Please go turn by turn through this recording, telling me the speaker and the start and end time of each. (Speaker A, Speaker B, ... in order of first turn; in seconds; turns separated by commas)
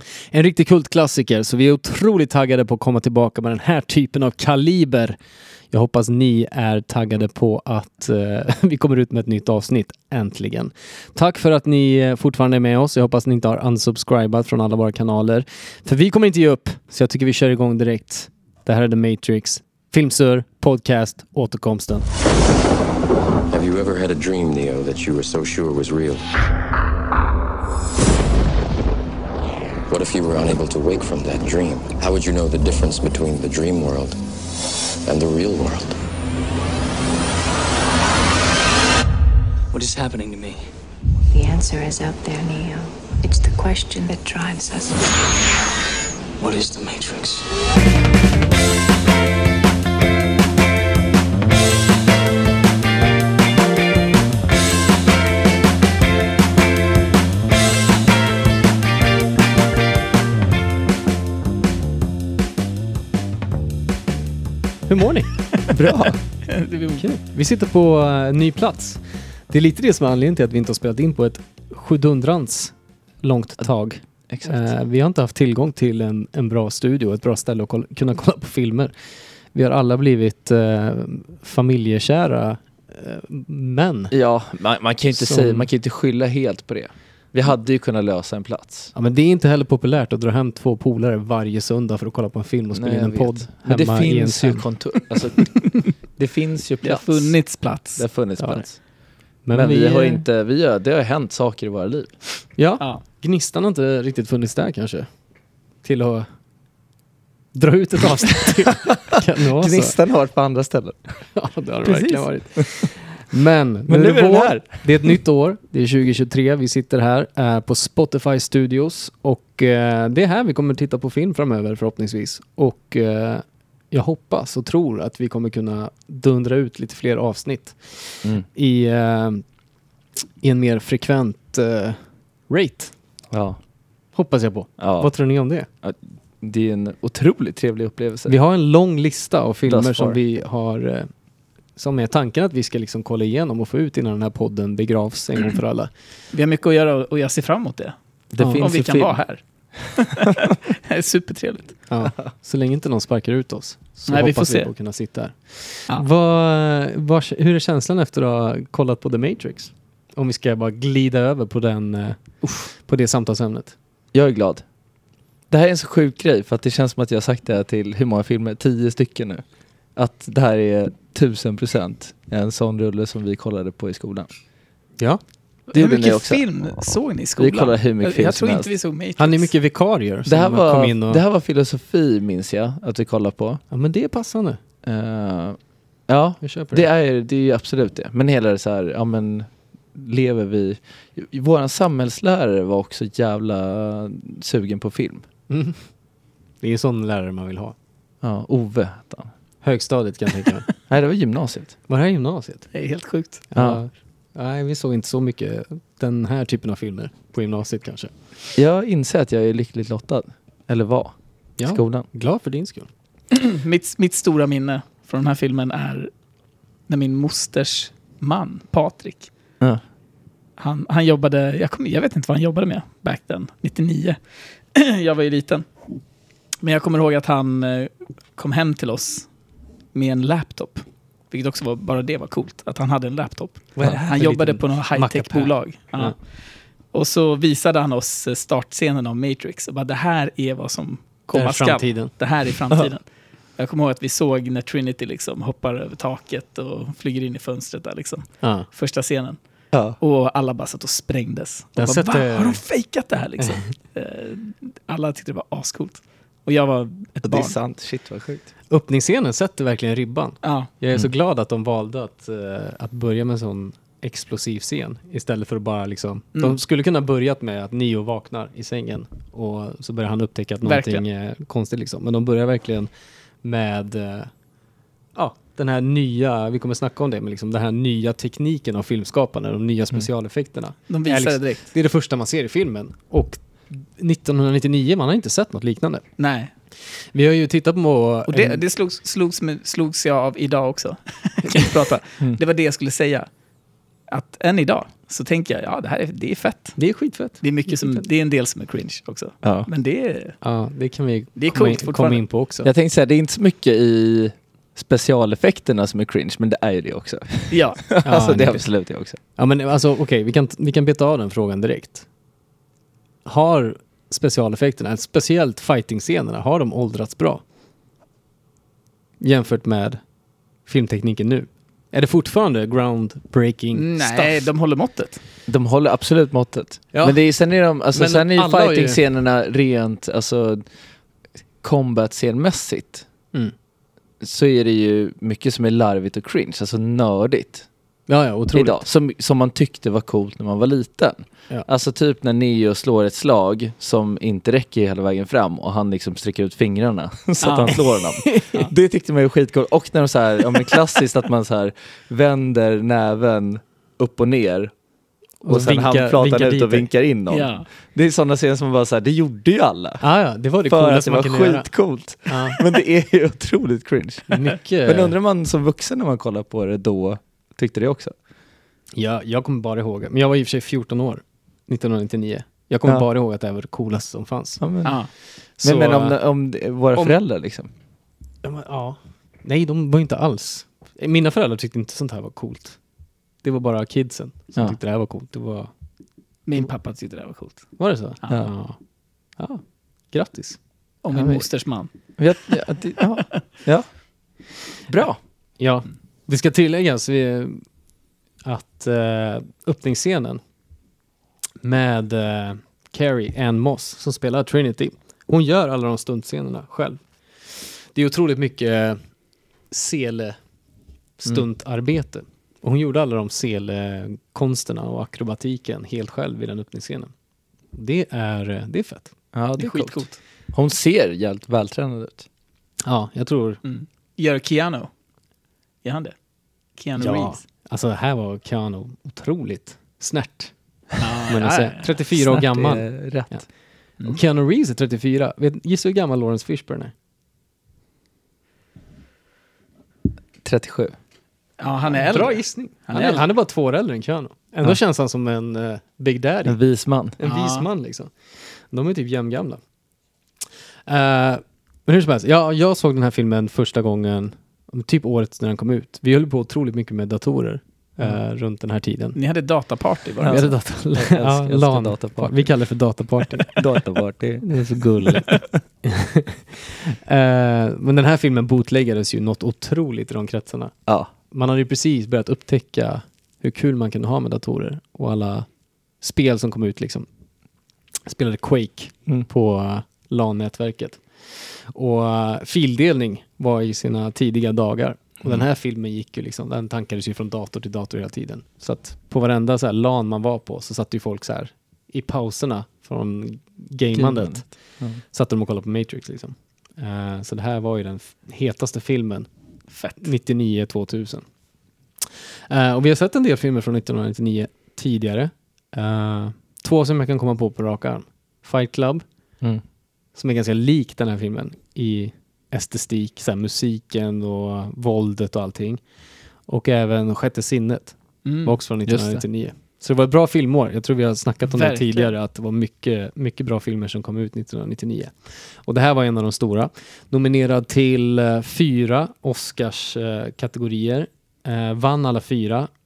Speaker A: 0.3-5.2, Speaker A: 5.7-22.1, Speaker B: 23.5-26.2, Speaker B: 29.9-34.2, Speaker B: 35.0-36.0, Speaker C: 39.7-40.6, Speaker D: 41.3-45.3, Speaker C: 46.4-47.5, Speaker A: 64.9-65.3, Speaker E: 65.7-66.2, Speaker F: 66.5-67.0, Speaker A: 67.0-78.9, Speaker E: 74.3-74.7, Speaker A: 79.5-84.1, Speaker E: 84.1-88.9, Speaker A: 85.1-85.7, Speaker A: 88.9-94.7, Speaker E: 92.7-97.3, Speaker F: 96.8-98.0, Speaker E: 98.0-98.8, Speaker A: 98.4-98.7, Speaker A: 99.4-100.2, Speaker E: 99.5-102.2, Speaker A: 102.6-105.1, Speaker A: 105.8-106.3, Speaker A: 107.5-110.0, Speaker E: 109.6-111.1, Speaker A: 111.3-129.4, Speaker E: 111.9-112.8, Speaker E: 113.9-115.1, Speaker A: 130.4-132.9, Speaker E: 133.3-133.6, Speaker A: 134.1-135.7, Speaker E: 134.8-135.1, Speaker E: 135.8-138.3, Speaker A: 138.3-141.1, Speaker E: 139.6-140.2, Speaker A: 141.8-145.9, Speaker F: 146.3-147.9, Speaker E: 148.3-149.2, Speaker A: 148.4-148.7, Speaker F: 148.5-149.4, Speaker F: 149.9-151.8, Speaker A: 151.9-163.7, Speaker F: 154.1-154.7, Speaker E: 164.1-164.6, Speaker E: 165.5-169.4, Speaker E: 169.9-174.3, Speaker F: 175.7-179.5, Speaker E: 175.7-176.4, Speaker E: 177.4-178.7, Speaker A: 179.2-181.2, Speaker E: 180.2-183.6, Speaker A: 183.7-184.6, Speaker E: 184.8-195.2, Speaker A: 186.4-186.8, Speaker A: 195.5-195.8, Speaker A: 196.6-197.7, Speaker E: 198.2-199.3, Speaker A: 199.6-200.7, Speaker E: 200.9-201.7, Speaker A: 201.9-202.7, Speaker F: 202.7-203.4, Speaker A: 203.5-208.1, Speaker E: 203.6-203.8, Speaker E: 208.5-212.1, Speaker A: 211.6-212.9, Speaker F: 213.3-216.1, Speaker F: 216.9-219.3, Speaker F: 220.6-224.2, Speaker F: 224.7-225.7, Speaker F: 226.6-229.3, Speaker F: 229.9-236.2, Speaker A: 233.8-236.2, Speaker F: 236.9-243.0, Speaker A: 241.3-242.1, Speaker F: 243.6-249.4, Speaker A: 248.4-248.7, Speaker E: 249.7-250.0, Speaker F: 250.0-257.6, Speaker A: 251.8-252.6, Speaker E: 257.2-258.5, Speaker A: 258.7-272.9, Speaker F: 260.4-260.7, Speaker F: 270.6-271.0, Speaker A: 273.4-274.3, Speaker A: 275.1-286.0, Speaker F: 280.9-281.7, Speaker F: 286.2-286.5, Speaker A: 287.1-288.6, Speaker F: 288.3-293.3, Speaker F: 294.1-296.8, Speaker A: 296.8-298.0, Speaker F: 297.4-300.4, Speaker E: 299.4-299.7, Speaker A: 300.4-302.7, Speaker F: 301.4-302.2, Speaker E: 302.6-309.2, Speaker F: 307.5-308.0, Speaker A: 308.0-308.7, Speaker A: 309.3-312.1, Speaker A: 313.2-317.4, Speaker A: 319.2-320.0, Speaker A: 320.6-324.5, Speaker F: 323.7-325.2, Speaker E: 325.5-330.6, Speaker A: 326.9-327.2, Speaker A: 327.9-329.0, Speaker E: 331.6-333.0, Speaker E: 334.2-337.6, Speaker A: 338.1-338.8, Speaker E: 338.5-354.7, Speaker F: 347.4-347.8, Speaker A: 347.7-348.6, Speaker A: 355.4-356.9, Speaker E: 355.5-360.1, Speaker F: 357.3-357.6, Speaker A: 360.0-361.7, Speaker E: 360.7-368.1, Speaker A: 362.2-362.6, Speaker A: 364.3-365.1, Speaker A: 369.0-374.6, Speaker E: 374.6-375.1, Speaker F: 374.8-375.1, Speaker E: 375.6-377.7, Speaker A: 375.6-376.2, Speaker A: 378.4-382.8, Speaker A: 383.4-385.7, Speaker F: 386.4-387.7, Speaker A: 387.8-388.8, Speaker A: 389.4-390.6, Speaker F: 391.0-391.9, Speaker E: 391.1-391.5, Speaker E: 392.2-393.9, Speaker E: 394.9-395.2, Speaker A: 395.6-397.6, Speaker A: 398.4-400.4, Speaker A: 401.6-407.0, Speaker A: 407.9-409.0, Speaker A: 409.7-410.4, Speaker A: 411.2-417.1, Speaker A: 417.7-419.1, Speaker E: 419.3-422.2, Speaker F: 419.6-420.2, Speaker A: 422.8-423.6, Speaker F: 423.6-424.9, Speaker F: 425.8-426.1, Speaker F: 426.8-427.4, Speaker A: 427.0-430.5, Speaker F: 431.0-432.2, Speaker A: 431.3-433.4, Speaker E: 432.3-433.4, Speaker A: 434.0-436.9, Speaker E: 440.4-440.9, Speaker F: 441.6-443.3, Speaker A: 441.9-446.6, Speaker E: 446.4-447.1, Speaker A: 447.2-448.1, Speaker F: 447.2-447.7, Speaker A: 448.7-449.6, Speaker A: 450.9-459.2, Speaker F: 459.1-460.5, Speaker E: 460.2-462.5, Speaker A: 460.3-463.6, Speaker E: 463.4-464.6, Speaker A: 464.4-470.7, Speaker A: 471.3-475.5, Speaker A: 476.0-477.1, Speaker A: 478.1-494.5, Speaker E: 493.9-495.0, Speaker A: 495.1-499.3, Speaker F: 499.7-500.0, Speaker A: 500.0-501.2, Speaker A: 502.5-509.0, Speaker A: 510.1-515.8, Speaker A: 516.5-532.7, Speaker F: 518.2-518.5, Speaker E: 518.9-519.2, Speaker F: 521.4-522.1